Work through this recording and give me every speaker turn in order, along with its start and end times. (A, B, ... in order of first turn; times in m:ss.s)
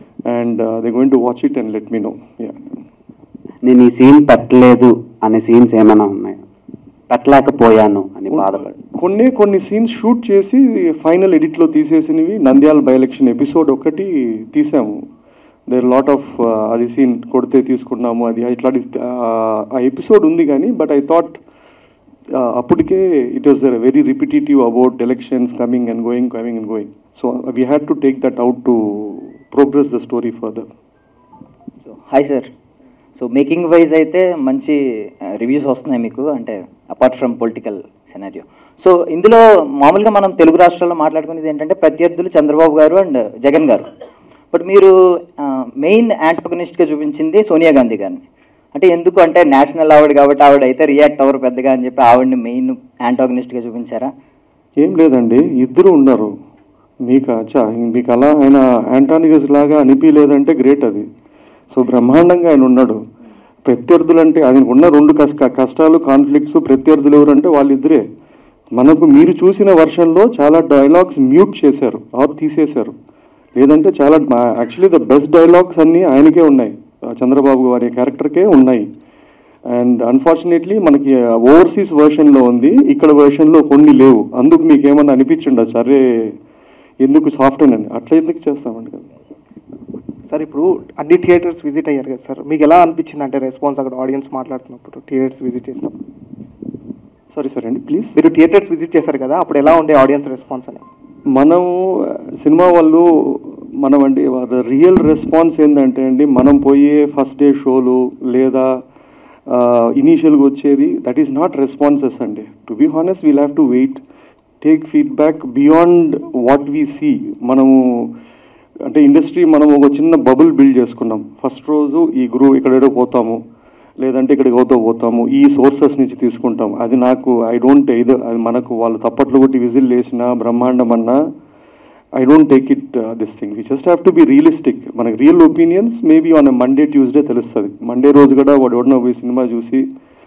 0:00.2-0:02.8 A
0:03.6-0:06.4 B
0:07.1-0:08.7 B
0:08.3-0:15.0 A
0:15.7-0:21.4 A
0:22.3-0:30.7 A
0:31.8-0:32.5 C
0:33.2-0:34.8 C
0:35.3-0:43.9 C
0:44.5-0:48.2 C
0:48.7-0:54.1 C
0:54.8-0:56.3 A
0:57.0-1:01.0 A
1:01.7-1:03.0 A
1:03.6-1:08.0 A
1:08.8-1:12.9 A
1:13.6-1:18.9 A
1:19.7-1:26.0 A
1:27.0-1:29.1 A
1:30.3-1:36.0 D
1:37.3-1:38.2 A
1:38.2-1:40.8 D
1:41.3-1:48.7 A
1:49.5-1:54.0 A
1:54.6-1:58.1 A
1:58.8-2:03.4 A
2:04.0-2:11.2 A
2:12.2-2:19.8 A